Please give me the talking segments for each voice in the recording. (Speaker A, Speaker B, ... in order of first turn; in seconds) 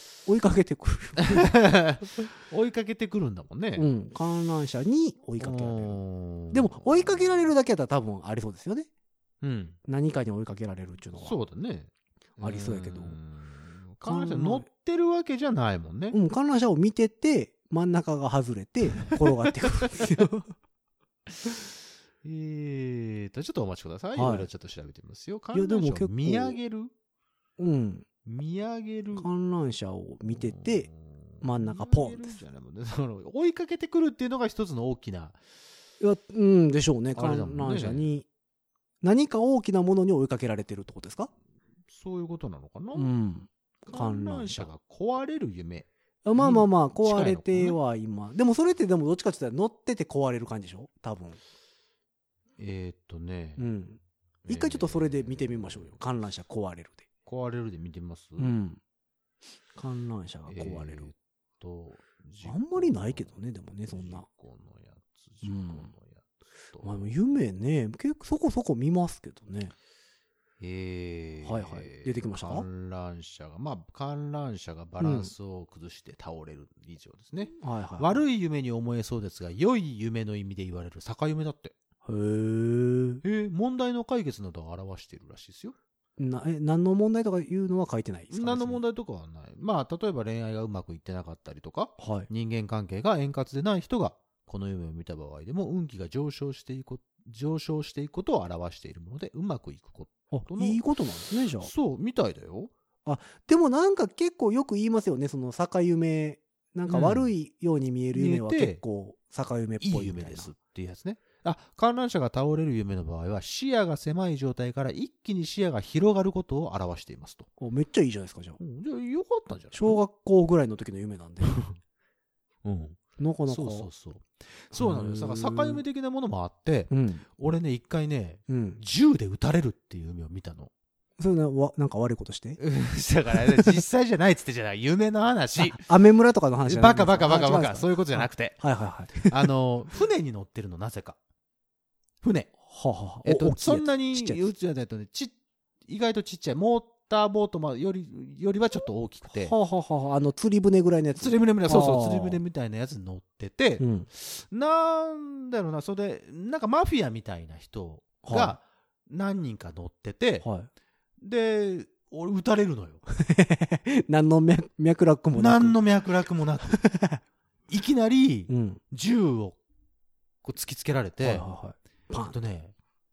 Speaker A: 0.3-1.6, 3.8-6.0, 6.5-8.9, 9.9-11.4, 12.4-13.2, 14.0-14.7, 16.1-20.5, 24.2-24.5, 25.5-26.6, 27.6-28.1, 29.2-30.9, 31.4-32.4, 36.0-38.3, 39.0-41.3, 42.9-44.7, 46.2-51.4, 53.6-57.1, 58.4-58.8, 59.8-61.1, 62.4-64.3, 65.4-65.9, 66.8-69.7, 71.4-72.7, 75.0-75.3, 77.6-78.2, 82.0-83.2, 86.2-88.8, 92.0-92.3, 100.3-101.7, 103.0-110.5, 117.6-118.6, 119.7-121.7, 123.2-123.9, 124.7-125.8, 126.9-127.2, 128.5-128.8, 131.2-132.6, 135.6-139.5, 142.7-144.4, 149.3-152.4, 153.8-154.1, 158.2-158.6, 160.4-160.7, 163.1-165.8, 166.7-167.2, 168.5-168.8, 171.2-172.4
Speaker B: 1.2-3.9, 5.4-7.5, 9.4-9.8, 11.2-16.2, 19.1-20.0, 22.2-26.9, 28.2-29.3, 30.4-35.4, 37.1-38.0, 41.9-43.1, 43.9-47.8, 52.6-53.6, 54.5-56.0, 57.3-58.5, 60.5-63.3, 63.9-67.1, 70.6-81.7, 83.2-85.8, 88.3-100.8, 101.6-102.7, 106.9-107.3, 108.1-108.8, 109.8-117.5, 118.6-120.0, 121.4-121.8, 122.6-130.7, 132.6-135.8, 136.6-141.2, 142.2-142.5, 143.2-145.3, 145.9-149.6, 151.2-160.5, 161.2-163.0, 165.3-166.8, 167.7-169.6, 170.4-171.5, 172.3-172.7